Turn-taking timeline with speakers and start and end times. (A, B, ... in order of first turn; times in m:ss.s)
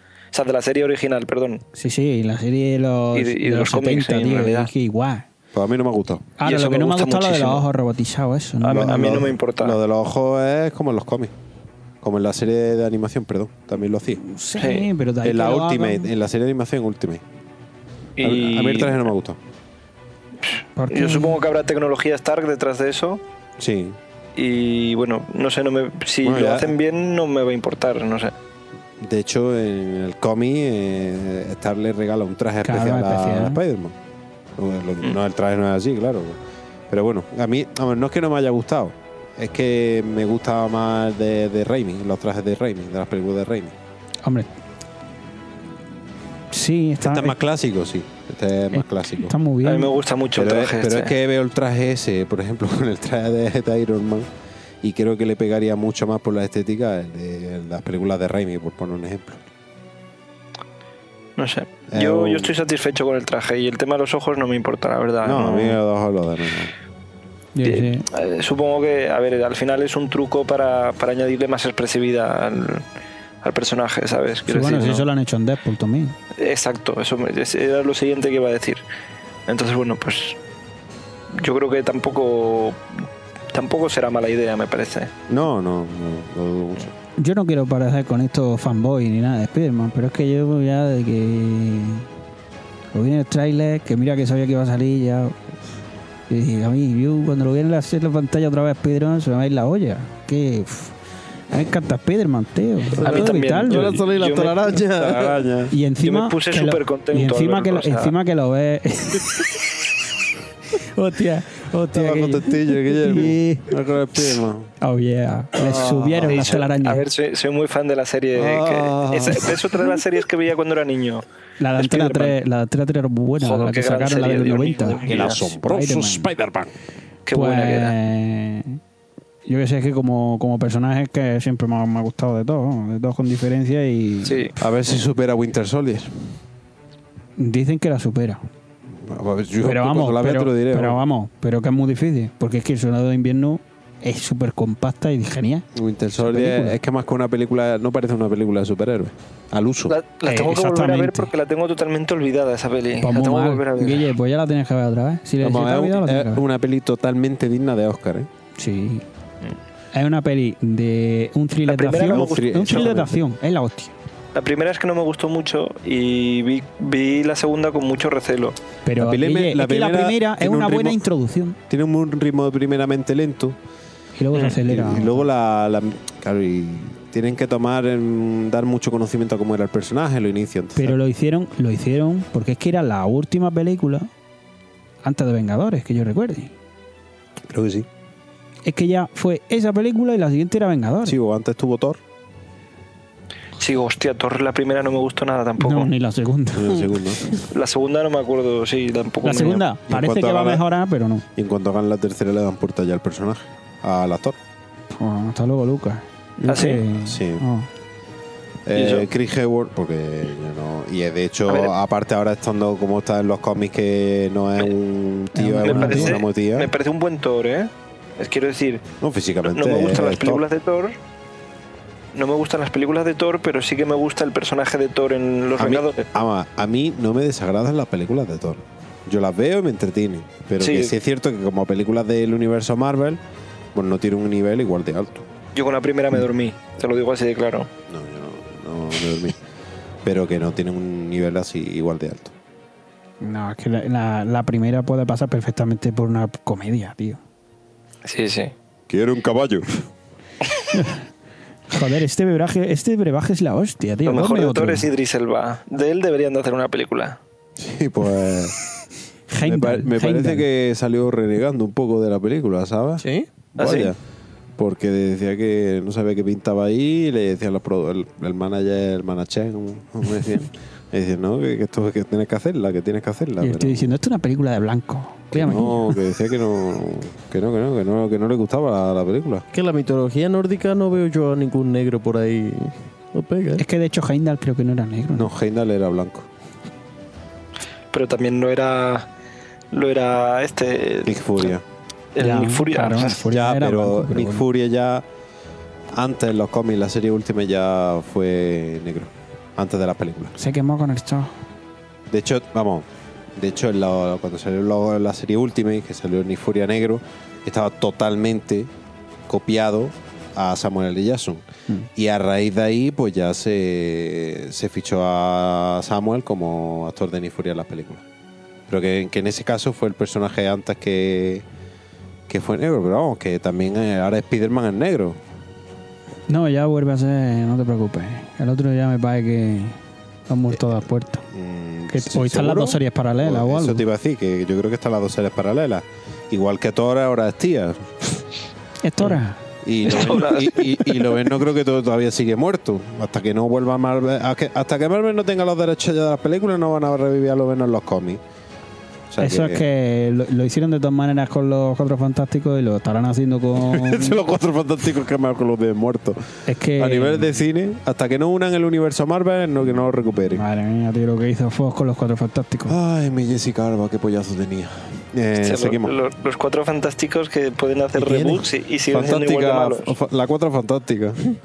0:00.3-0:01.6 A
0:01.8-0:05.2 B
0:03.1-0:04.7 A
0:05.5-0:06.2 C
0:06.4-0:09.1 B
0:06.4-0:07.7 A
0:08.6-0:09.8 A
0:08.7-0:11.3 C
0:12.0-0:14.2 C
0:14.2-0:16.1 B
0:14.6-0:14.9 A
0:15.2-0:17.2 C
0:18.2-0:19.1 A
0:18.2-0:19.4 C
0:20.5-0:23.2 A
0:20.8-0:21.4 B
0:23.6-0:24.0 C
0:24.4-0:28.3 A
0:26.2-0:26.7 C
0:29.0-0:34.0 C
0:32.6-0:33.6 B
0:34.6-0:36.4 C
0:36.9-0:43.8 C
0:44.2-0:44.5 B
0:46.5-0:47.4 B
0:47.0-0:49.3 C
0:48.7-0:49.9 B
0:49.6-0:51.1 A
0:50.4-0:54.3 C
0:54.8-0:59.4 C
1:01.4-1:05.8 A
1:01.9-1:02.6 C
1:05.2-1:06.7 C
1:07.6-1:08.0 B
1:07.6-1:12.8 A
1:13.4-1:15.1 A
1:14.5-1:16.2 B
1:16.4-1:18.8 A
1:19.5-1:20.4 A
1:21.4-1:22.8 A
1:23.5-1:25.1 A
1:25.3-1:26.9 C
1:27.2-1:32.1 B
1:32.9-1:35.4 B
1:36.3-1:41.0 B
1:41.5-1:44.0 B
1:43.0-1:45.5 D
1:43.0-1:44.8 A
1:44.7-1:45.7 C
1:45.7-1:49.7 B
1:46.0-1:48.2 A
1:50.8-1:53.7 B
1:51.9-1:54.7 C
1:54.8-1:57.0 B
1:55.6-1:56.6 C
1:56.2-2:01.2 A
1:58.3-2:00.0 C
2:01.6-2:06.3 B
2:01.8-2:02.4 A
2:03.4-2:05.4 A
2:05.0-2:06.7 C
2:07.3-2:08.0 A
2:07.3-2:08.8 B
2:09.5-2:14.4 B
2:14.2-2:14.5 A
2:14.6-2:16.4 C
2:17.4-2:18.4 B
2:19.0-2:21.0 C
2:19.6-2:26.8 B
2:25.7-2:30.0 C
2:29.9-2:34.1 A
2:30.3-2:31.3 B
2:33.0-2:36.4 B
2:35.4-2:38.3 C
2:38.6-2:39.0 B
2:39.9-2:43.9 B
2:41.7-2:42.9 A
2:42.1-2:43.2 C
2:44.4-2:48.6 A
2:48.8-2:51.6 B
2:49.0-2:51.0 C
2:51.7-2:53.6 C
2:54.2-2:55.2 B
2:54.3-2:54.6 A
2:54.6-3:01.0 C
3:00.8-3:04.1 B
3:05.0-3:06.5 B
3:07.5-3:07.9 C
3:08.6-3:11.2 B
3:11.1-3:12.0 C
3:13.6-3:15.9 A
3:15.6-3:16.9 B
3:16.5-3:17.2 C
3:17.5-3:19.6 A
3:19.2-3:21.2 B
3:19.9-3:20.6 C
3:21.4-3:24.4 C
3:24.9-3:27.7 B
3:26.5-3:26.8 A
3:27.0-3:27.4 C
3:28.7-3:36.7 C
3:28.8-3:29.1 A
3:31.5-3:31.7 A
3:35.4-3:36.2 B
3:35.6-3:38.8 A
3:39.0-3:40.4 C
3:39.5-3:41.0 A
3:42.2-3:46.1 A
3:45.6-3:53.2 C
3:50.6-3:50.9 A
3:53.8-3:55.2 C
3:55.6-3:57.7 A
3:57.9-3:59.4 C
4:00.0-4:02.4 C
4:03.2-4:07.2 B
4:08.0-4:08.5 A
4:08.9-4:09.7 C
4:10.7-4:11.0 B
4:11.7-4:14.9 B
4:14.1-4:17.2 A
4:17.6-4:18.6 C
4:19.3-4:20.4 B
4:19.4-4:24.0 C
4:23.0-4:23.3 D
4:23.6-4:23.9 A
4:24.6-4:33.9 C
4:33.4-4:36.0 B
4:35.4-4:39.4 C
4:35.4-4:35.7 D
4:39.5-4:43.6 D
4:43.6-4:45.3 B
4:45.2-4:46.3 C
4:47.9-4:49.1 A
4:49.7-4:51.2 A
4:51.0-4:51.6 C
4:52.2-4:53.2 A
4:52.2-4:54.5 B
4:53.3-4:55.0 C
4:55.9-5:00.4 C
5:00.4-5:01.4 B
5:02.1-5:08.7 C
5:09.3-5:11.4 C
5:12.0-5:18.0 C
5:18.7-5:21.4 C
5:22.3-5:25.2 C
5:26.3-5:31.3 B
5:31.3-5:38.2 C
5:31.9-5:33.8 B
5:38.8-5:39.4 B
5:39.6-5:48.2 C
5:39.9-5:41.1 A
5:49.1-5:49.6 C
5:49.2-5:54.2 B
5:53.5-5:56.2 C
5:56.5-5:57.4 B
5:56.8-6:00.4 C
6:00.3-6:02.8 B
6:02.7-6:05.9 C
6:05.4-6:09.9 A
6:08.0-6:08.5 D
6:08.9-6:11.2 C